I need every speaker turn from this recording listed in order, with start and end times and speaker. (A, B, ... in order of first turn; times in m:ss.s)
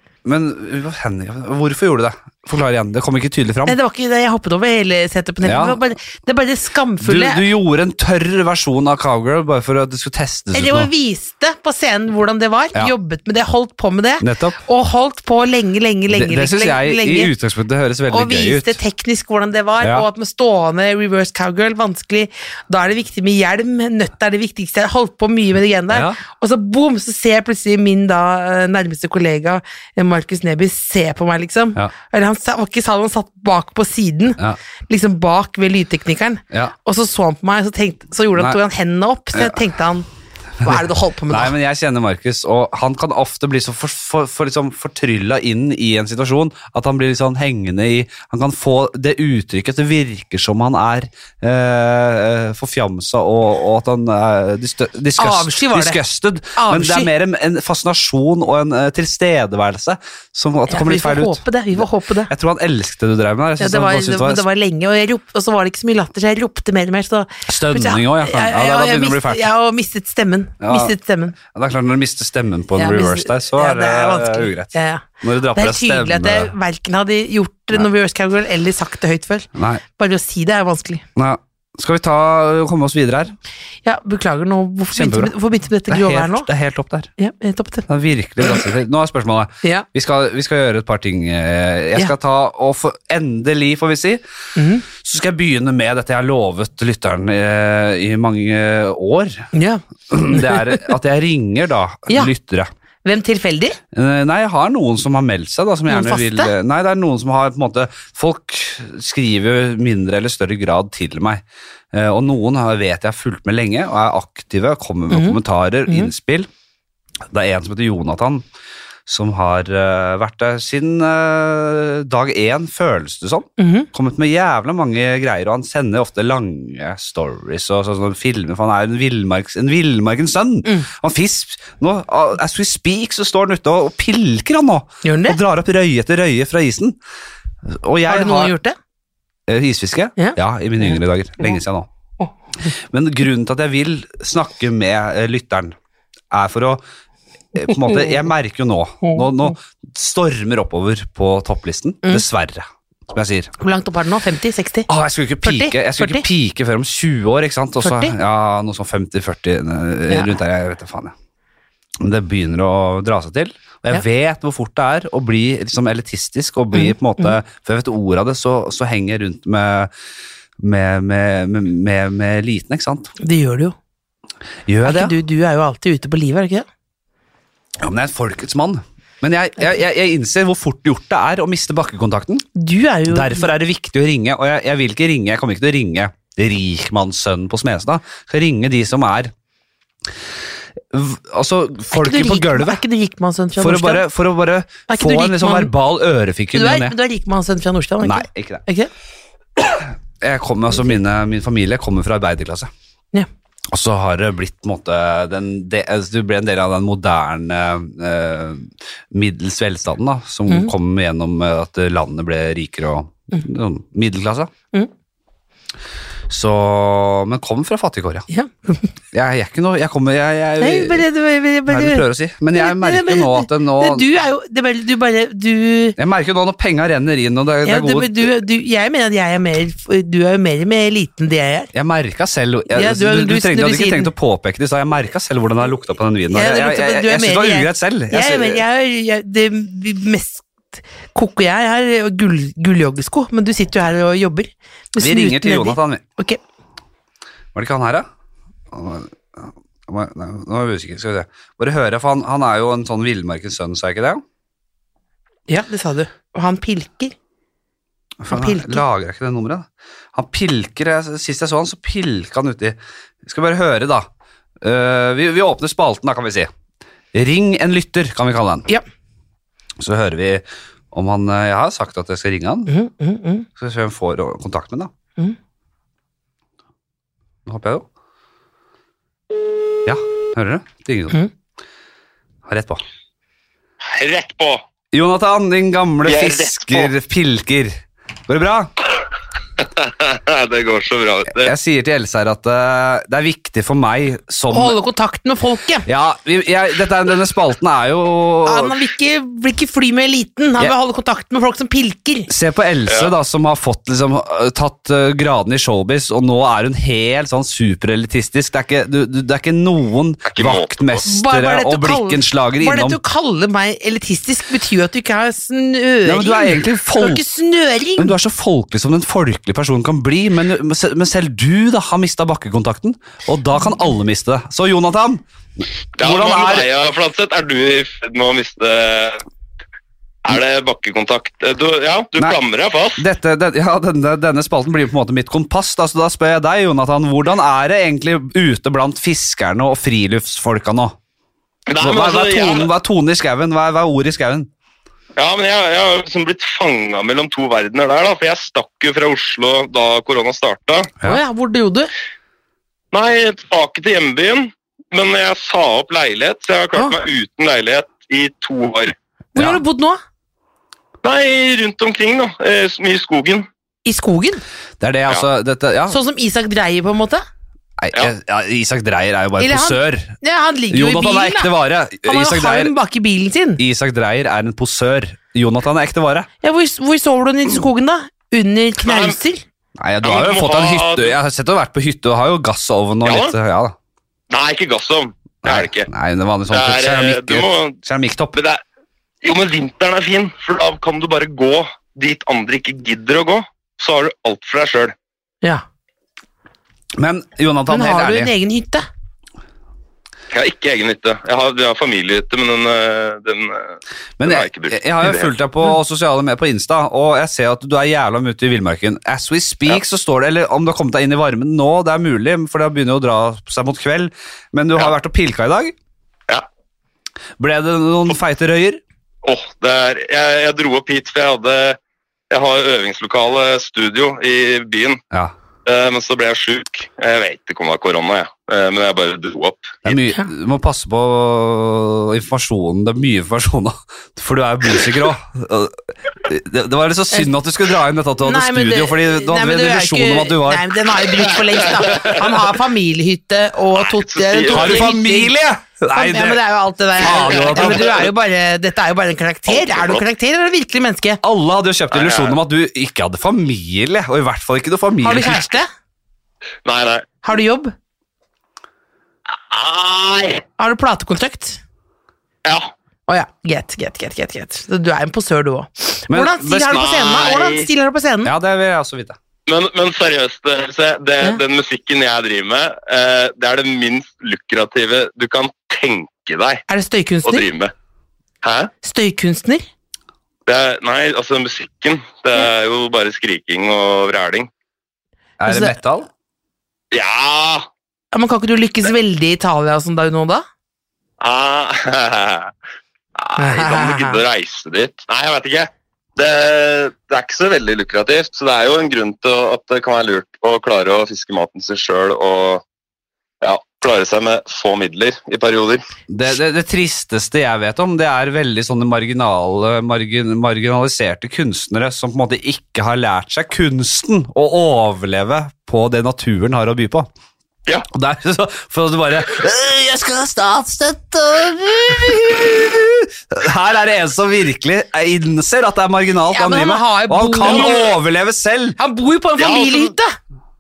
0:00.2-0:03.8 A
0:03.6-0:07.4 B
0:05.4-0:05.8 A
0:07.0-0:10.9 A
0:10.5-0:17.3 B
0:14.2-0:14.6 A
0:16.1-0:18.8 A
0:18.1-0:40.0 B
0:19.8-0:20.0 A
0:25.9-0:26.2 A
0:39.3-0:39.6 A
0:40.6-1:04.4 A
0:40.6-0:41.5 B
0:55.2-0:56.0 B
0:56.6-0:57.1 B
1:00.7-1:02.3 B
1:03.6-1:11.4 B
1:07.5-1:09.5 A
1:10.6-1:10.9 A
1:11.5-1:16.5 A
1:12.8-1:21.0 B
1:19.5-1:19.8 A
1:21.2-1:23.3 A
1:23.8-1:26.5 B
1:24.9-1:25.3 A
1:25.9-1:27.1 A
1:27.2-1:27.9 B
1:27.9-1:34.2 A
1:34.6-1:34.8 B
1:34.9-1:39.5 A
1:39.5-1:40.9 B
1:40.1-1:42.7 A
1:43.0-1:43.8 B
1:43.9-1:51.4 A
1:45.9-1:46.5 B
1:51.9-1:56.5 A
1:55.1-1:56.1 B
1:57.3-1:58.4 A
1:59.0-2:17.0 A
2:03.6-2:03.9 B
2:15.0-2:15.4 B
2:17.6-2:18.5 A
2:18.1-2:18.8 B
2:19.5-2:21.9 A
2:20.2-2:21.6 B
2:22.7-2:25.8 A
2:26.3-2:26.8 A
2:27.5-2:33.5 A
2:27.7-2:28.2 B
2:29.0-2:29.5 B
2:33.6-2:34.9 B
2:34.9-2:41.1 A
2:35.4-2:36.2 B
2:37.8-2:38.1 B
2:40.1-2:40.3 B
2:42.0-2:49.9 A
2:46.7-2:47.3 B
2:50.6-2:53.1 A
2:53.2-2:53.7 B
2:54.7-2:55.1 A
2:54.8-2:56.6 B
2:57.8-3:02.4 A
3:02.5-3:03.5 B
3:03.1-3:09.3 A
3:10.9-3:12.8 A
3:11.9-3:14.0 B
3:13.6-3:16.9 A
3:14.9-3:15.7 B
3:16.5-3:18.9 B
3:18.0-3:18.6 A
3:19.6-3:22.7 A
3:23.7-3:34.5 A
3:36.3-3:38.3 A
3:38.3-3:38.9 B
3:39.1-3:41.0 A
3:40.6-3:46.0 B
3:41.7-3:44.1 A
3:46.0-3:48.3 A
3:47.6-3:51.7 B
3:51.7-3:58.6 A
3:52.7-3:54.1 B
3:56.3-4:06.4 B
4:05.0-4:06.0 A
4:07.5-4:08.0 A
4:08.7-4:14.2 A
4:15.5-4:17.1 B
4:18.2-4:24.1 A
4:18.3-4:18.8 B
4:24.6-4:26.5 A
4:27.1-4:28.7 A
4:29.8-4:32.8 A
4:32.7-4:33.5 B
4:33.6-4:34.9 A
4:37.4-4:37.8 A
4:39.8-4:41.2 A
4:42.4-4:42.8 A
4:43.8-4:44.6 C
4:44.9-4:48.7 A
4:46.0-4:46.9 C
4:49.6-4:51.5 C
4:51.3-4:54.8 A
4:54.5-4:55.9 B
4:55.9-4:58.8 A
4:58.4-5:02.3 B
5:02.3-5:13.0 A
5:10.2-5:11.0 C
5:11.0-5:18.1 B
5:16.0-5:17.2 A
5:18.0-5:26.7 A
5:26.0-5:29.2 C
5:30.2-5:33.0 C
5:33.0-5:41.0 A
5:41.7-5:42.7 C
5:41.8-5:44.5 A
5:45.2-5:50.9 C
5:51.0-5:51.9 B
5:52.9-5:58.9 C
5:59.3-6:00.0 B
6:01.0-6:03.5 C
6:03.8-6:04.4 B
6:04.8-6:06.0 A
6:05.9-6:07.2 B
6:07.8-6:10.2 A
6:09.4-6:11.5 B
6:10.7-6:12.7 A
6:12.0-6:13.6 B
6:13.6-6:16.3 A
6:16.4-6:19.4 B
6:18.8-6:19.2 C
6:19.8-6:23.7 A
6:20.0-6:21.1 C
6:23.0-6:23.3 C
6:24.3-6:25.9 C
6:25.4-6:28.4 A
6:26.5-6:27.8 C
6:28.3-6:28.6 C
6:29.2-6:34.9 C
6:37.0-6:38.3 A
6:37.7-6:38.8 B
6:40.3-6:45.3 C
6:44.2-6:55.7 A
6:57.4-6:58.8 A
6:59.2-7:01.8 C
7:02.3-7:05.0 C
7:05.6-7:09.8 C
7:09.8-7:20.7 A
7:18.2-7:25.3 B
7:21.5-7:22.2 C
7:23.7-7:24.9 C
7:24.5-7:26.4 A
7:25.9-7:31.2 B
7:27.0-7:28.0 A
7:27.1-7:28.0 C
7:29.5-7:30.0 C
7:31.2-7:35.5 A
7:31.9-7:32.4 C
7:35.0-7:35.7 B
7:36.6-7:37.2 C
7:37.2-7:37.7 B
7:39.3-7:40.4 C
7:40.6-7:41.6 B
7:42.4-7:42.7 C
7:43.1-7:48.3 B
7:46.1-7:46.8 A
7:46.7-7:47.7 C
7:48.2-7:49.2 A
7:49.5-7:56.6 C
7:56.7-7:57.4 B
7:57.2-7:57.7 C
7:58.4-7:58.7 C
7:58.8-7:59.6 B
8:00.5-8:04.5 C
8:05.4-8:06.1 A
8:05.4-8:05.7 B
8:06.9-8:07.7 C
8:08.1-8:10.4 B
8:11.2-8:12.5 C
8:13.2-8:22.6 C
8:13.4-8:14.2 B
8:23.4-8:25.8 C
8:26.1-8:37.1 A
8:37.9-8:48.8 A
8:46.3-8:47.8 B
8:47.4-8:47.9 C
8:48.8-8:50.1 B
8:49.4-8:49.9 C